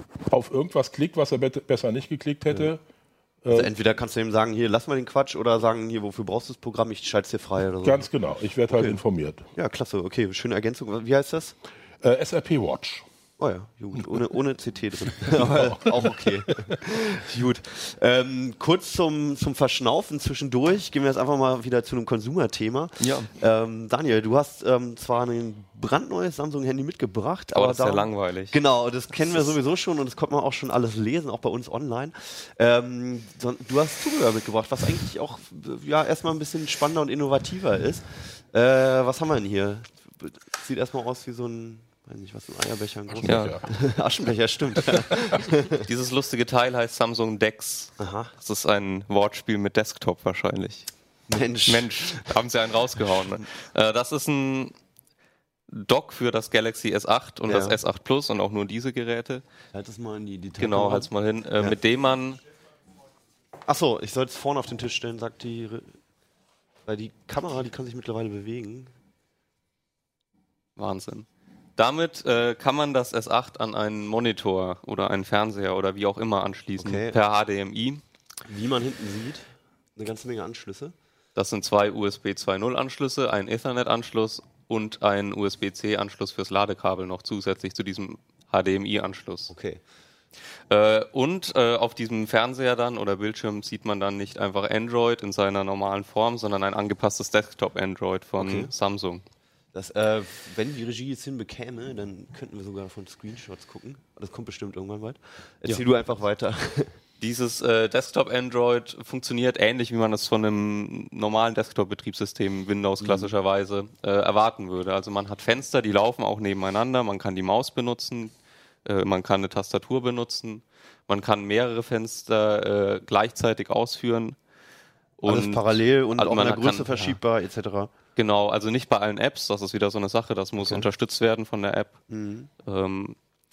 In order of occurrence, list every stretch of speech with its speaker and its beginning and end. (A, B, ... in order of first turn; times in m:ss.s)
0:00.3-0:02.8 A
0:03.4-0:03.7 A
0:03.5-0:08.1 B
0:07.8-0:09.4 A
0:09.5-0:11.5 B
0:12.0-0:13.0 A
0:13.4-0:45.8 B
0:15.2-0:16.8 A
0:23.0-0:23.3 C
0:27.5-0:28.6 C
0:43.1-0:43.6 A
0:43.2-0:43.6 C
0:45.7-0:50.9 C
0:48.0-0:48.3 B
0:51.3-0:52.3 B
0:51.7-0:54.7 C
0:55.7-0:59.4 C
0:57.5-0:57.8 B
0:59.7-1:01.8 B
1:00.6-1:02.4 C
1:03.7-1:06.0 B
1:06.9-1:08.9 B
1:10.8-1:11.2 C
1:11.8-1:18.0 C
1:16.8-1:17.2 B
1:18.4-1:20.9 B
1:21.4-1:29.5 C
1:29.5-1:29.8 B
1:30.7-1:39.2 C
1:38.4-1:38.7 B
1:39.7-1:47.0 B
1:47.2-1:58.3 C
1:53.0-1:53.3 B
1:58.8-2:04.4 C
2:05.2-2:07.2 C
2:05.2-2:07.9 B
2:08.2-2:12.0 C
2:10.6-2:10.9 B
2:12.1-2:12.5 B
2:12.6-2:13.2 C